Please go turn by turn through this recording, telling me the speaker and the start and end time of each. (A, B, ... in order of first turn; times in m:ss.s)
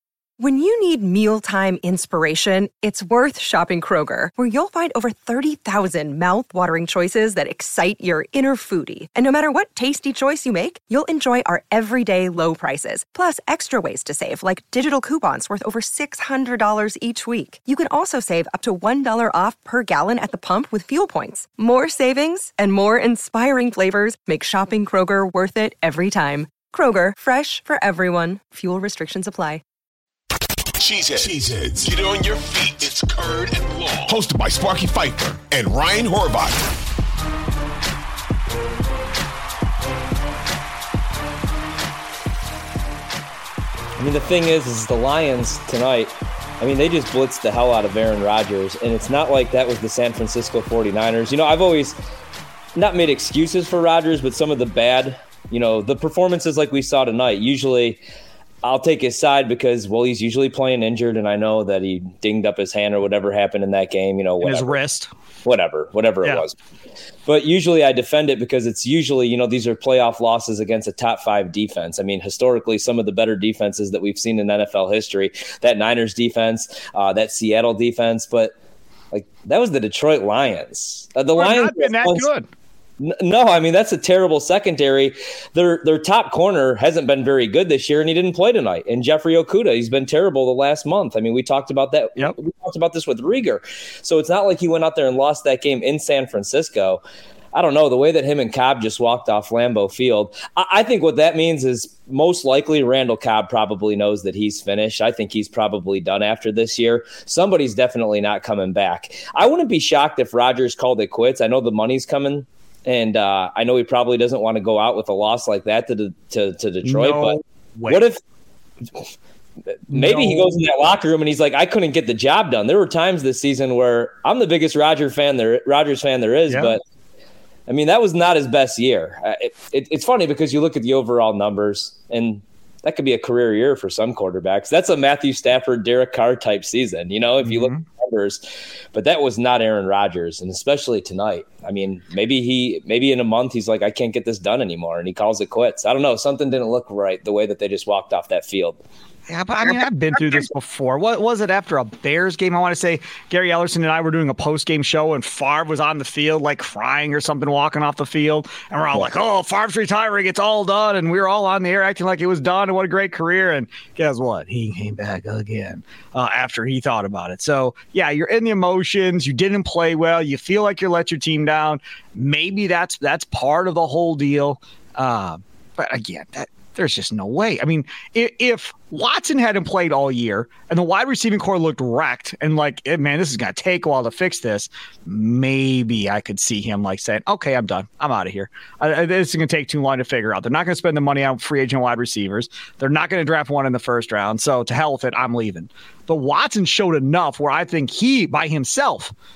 0:00.4-0:29.6 A
0:30.8-0:36.7 B
0:44.0-0:52.0 C
0:52.8-0:58.0 C
0:58.6-1:04.8 C
1:04.4-1:05.1 D
1:05.4-1:06.6 C
1:07.3-1:18.5 C
1:19.1-1:22.3 C
1:21.4-1:22.5 D
1:23.0-1:37.0 C
1:37.5-1:58.2 C
1:56.8-1:58.0 D
1:59.9-2:06.8 C
1:59.9-2:00.5 D
2:06.5-2:06.8 D
2:07.7-2:18.4 C
2:17.4-2:17.8 D
2:18.9-2:28.8 C
2:29.3-3:19.1 D